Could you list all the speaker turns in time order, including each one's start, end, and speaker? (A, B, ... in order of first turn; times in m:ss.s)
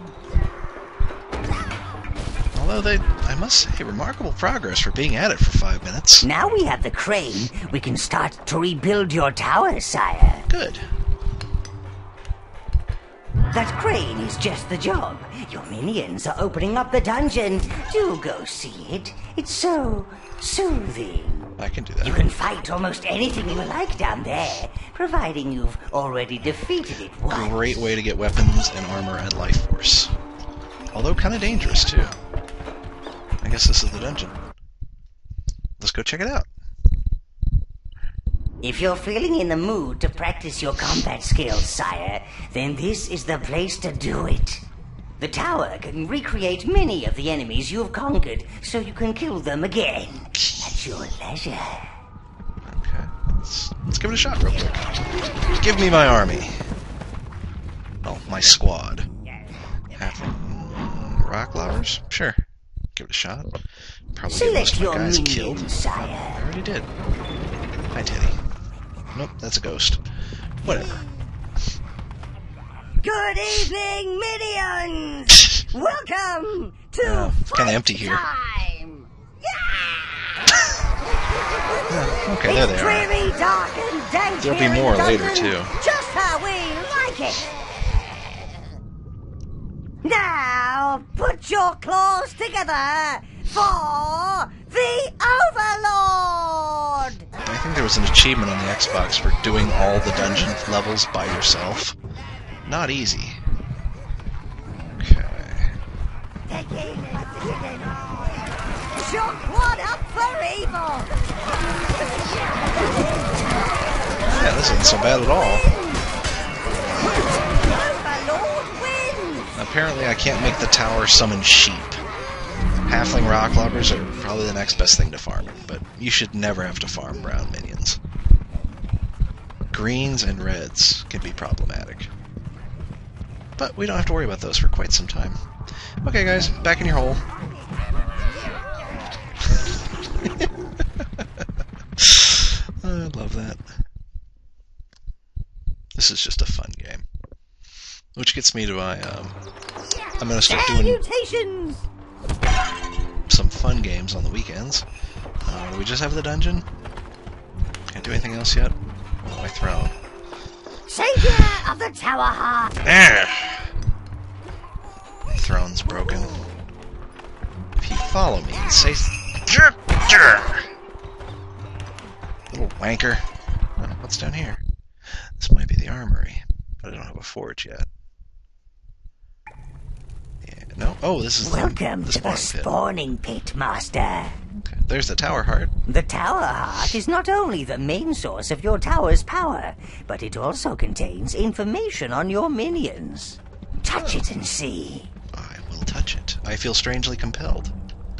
0:02.5-0:06.3 A
0:06.2-0:10.5 B
0:10.5-0:10.8 A
0:13.5-0:27.9 B
0:21.6-0:22.3 A
0:27.3-0:30.1 A
0:30.9-0:32.2 A
0:33.4-0:34.4 A
0:35.8-0:36.5 A
0:38.6-0:44.6 B
0:45.2-0:51.9 B
0:50.4-0:50.7 A
0:52.6-0:54.8 A
0:55.5-0:56.6 A
0:58.0-0:59.1 A
1:00.0-1:02.4 A
1:03.0-1:03.6 A
1:04.1-1:06.9 A
1:04.3-1:06.4 B
1:07.9-1:08.4 A
1:09.1-1:10.0 A
1:10.6-1:11.0 A
1:13.0-1:20.4 B
1:17.0-1:18.2 A
1:21.9-1:23.1 A
1:22.4-1:27.5 B
1:24.4-1:25.8 A
1:30.0-1:37.3 B
1:37.4-1:42.0 A
1:42.6-1:43.4 A
1:45.0-1:45.7 A
1:46.5-1:48.2 B
1:49.0-1:51.1 B
1:54.2-1:55.7 A
1:57.6-1:59.5 B
1:59.5-2:02.0 A
2:02.9-2:08.0 A
2:09.7-2:12.1 A
2:13.6-2:15.4 A
2:16.0-2:17.2 A
2:19.6-2:20.5 A
2:21.0-2:21.4 A
2:22.0-2:23.6 A
2:26.0-2:27.0 A
2:28.2-2:29.4 A
2:30.2-2:31.0 A
2:30.2-2:31.9 B
2:33.3-2:34.8 A
2:35.4-2:36.6 A
2:37.9-2:39.9 A
2:40.9-2:42.7 B
2:42.8-2:43.7 A
2:45.3-2:46.5 A
2:47.8-2:50.6 A
2:52.5-2:53.2 A
2:53.8-2:54.6 A
2:55.4-2:57.9 A
3:00.4-3:02.7 A
3:01.4-3:04.4 B
3:04.6-3:05.7 A
3:05.9-3:15.1 B
3:14.0-3:14.3 A
3:15.3-3:17.7 A